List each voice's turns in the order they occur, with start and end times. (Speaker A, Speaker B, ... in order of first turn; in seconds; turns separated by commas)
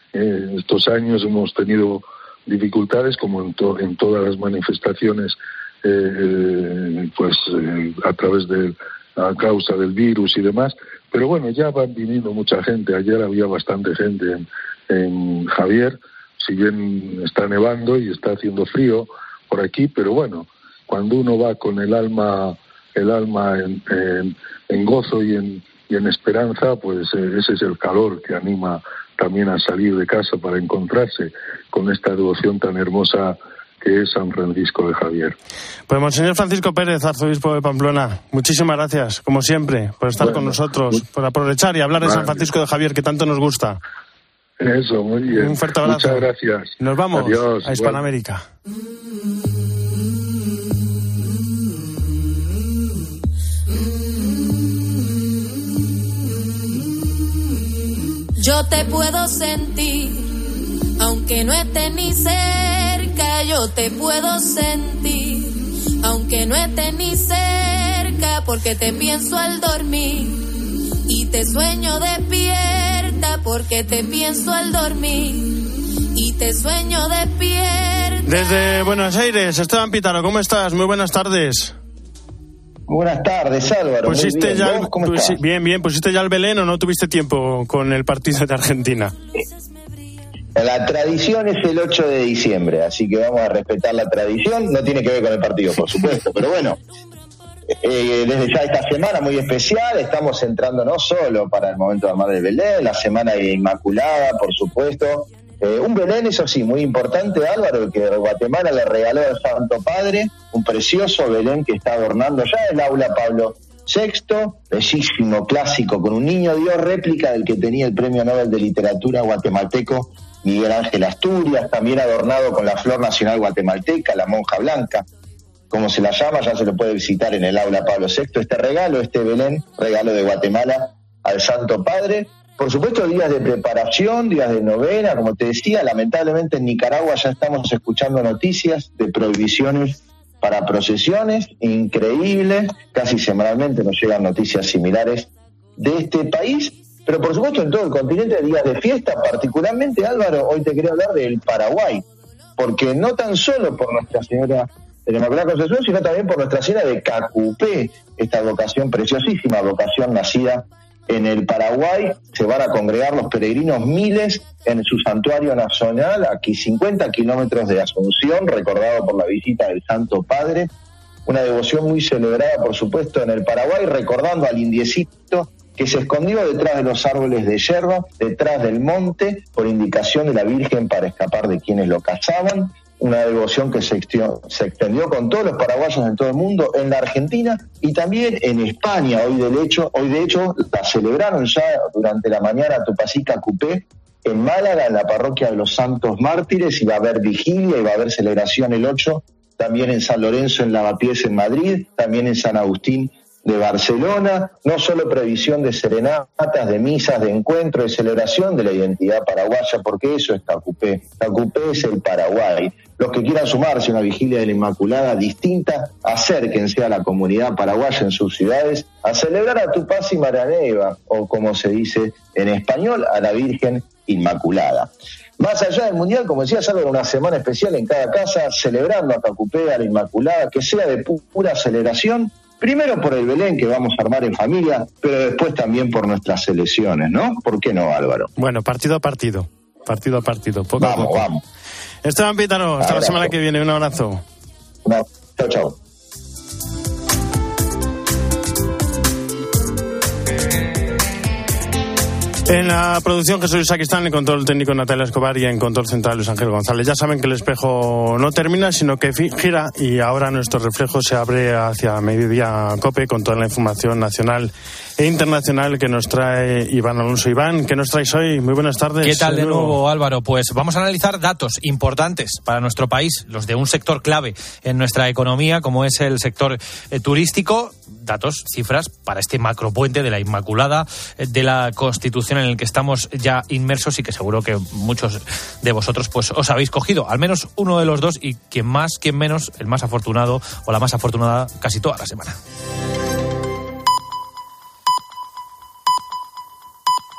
Speaker A: 0.1-35.4, Speaker B: 35.9-43.8, Speaker A: 40.2-41.0, Speaker A: 42.0-42.5, Speaker A: 44.6-48.0, Speaker B: 45.3-46.3, Speaker B: 46.8-48.4, Speaker C: 58.4-60.4, Speaker C: 61.0-70.5, Speaker C: 71.1-79.0, Speaker B: 78.2-81.8, Speaker D: 82.9-85.4, Speaker B: 84.0-89.1, Speaker D: 90.5-96.8, Speaker D: 97.8-125.0, Speaker D: 125.7-152.0, Speaker D: 152.6-170.7, Speaker D: 171.2-238.3, Speaker B: 238.4-241.3, Speaker D: 240.8-241.4, Speaker B: 242.0-244.2, Speaker D: 242.8-243.3, Speaker D: 244.8-245.8, Speaker B: 252.5-269.8, Speaker E: 269.0-292.4